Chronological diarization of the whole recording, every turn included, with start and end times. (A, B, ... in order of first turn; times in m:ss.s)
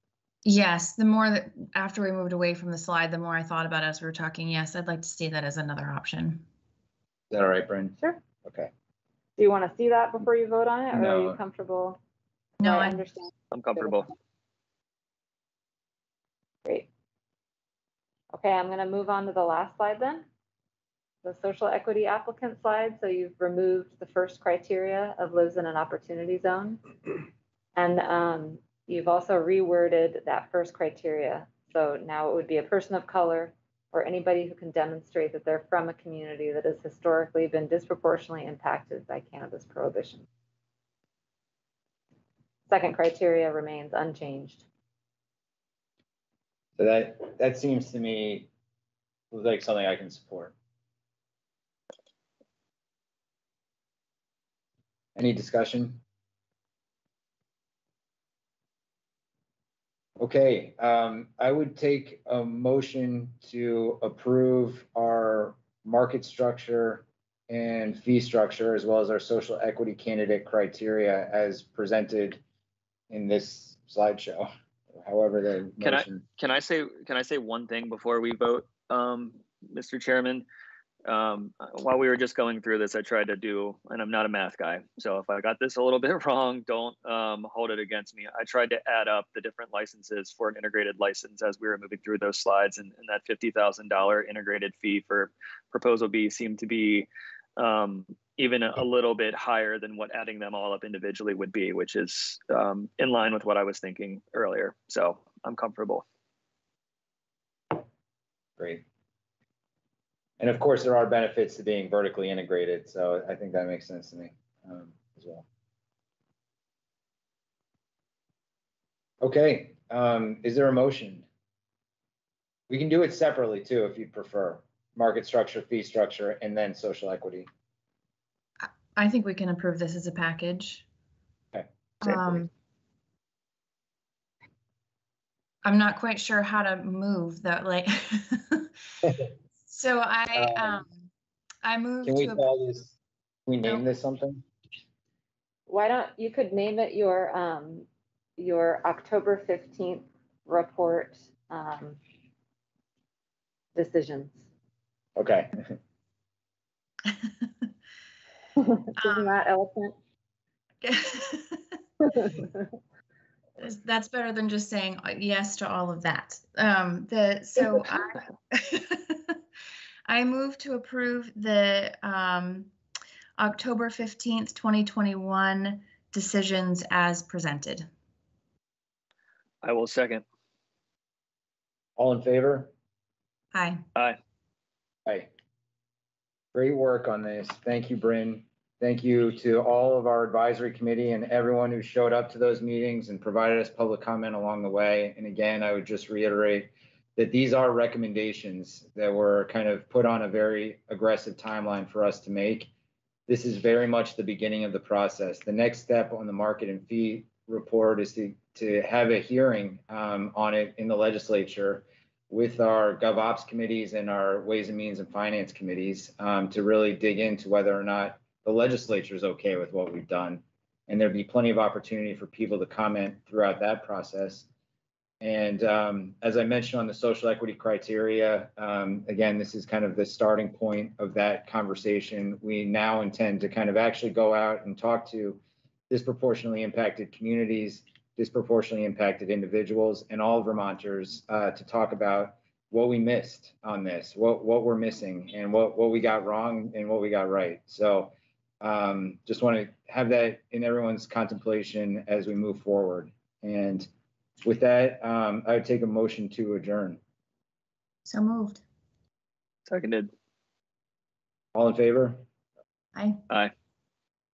0:00.4-0:06.4 A
0:07.3-0:08.7 B
0:09.4-0:12.0 C
0:10.9-0:11.4 B
0:12.6-0:13.0 A
0:12.6-0:14.1 C
0:13.5-0:14.1 D
0:18.3-0:20.2 C
0:21.2-0:26.8 C
0:27.8-0:40.2 C
0:42.7-0:44.6 C
0:46.8-0:48.5 B
0:49.3-0:50.5 B
0:55.2-0:56.0 B
1:00.2-1:12.4 B
1:13.1-1:16.2 B
1:15.8-1:20.4 D
1:21.0-1:46.0 D
1:48.6-1:48.8 B
1:50.4-1:55.4 B
1:59.2-2:01.2 B
2:02.7-2:07.5 B
2:08.6-2:10.8 A
2:11.5-2:12.4 B
2:12.0-2:12.5 A
2:15.6-2:18.7 A
2:19.0-2:19.3 B
2:19.7-2:21.1 A
2:20.3-2:20.8 B
2:21.6-2:22.5 A
2:22.0-2:22.9 B
2:23.5-2:24.4 B
2:25.7-2:32.0 C
2:33.7-2:34.4 C
2:35.2-2:35.7 B
2:38.6-2:39.9 C
2:39.0-2:39.3 A
2:40.8-2:41.6 A
2:42.0-2:42.6 C
2:43.6-2:49.4 A
2:50.1-2:52.7 A
2:53.4-2:57.9 A
2:59.6-3:00.2 D
3:02.0-3:02.7 B
3:03.5-3:03.8 A
3:05.0-3:05.3 B
3:06.5-3:22.7 B
3:23.3-3:44.5 B
3:45.2-4:13.9 B
4:14.4-4:17.0 B
4:18.0-4:18.6 A
4:19.7-4:20.1 D
4:21.5-4:22.2 B
4:22.9-4:23.2 A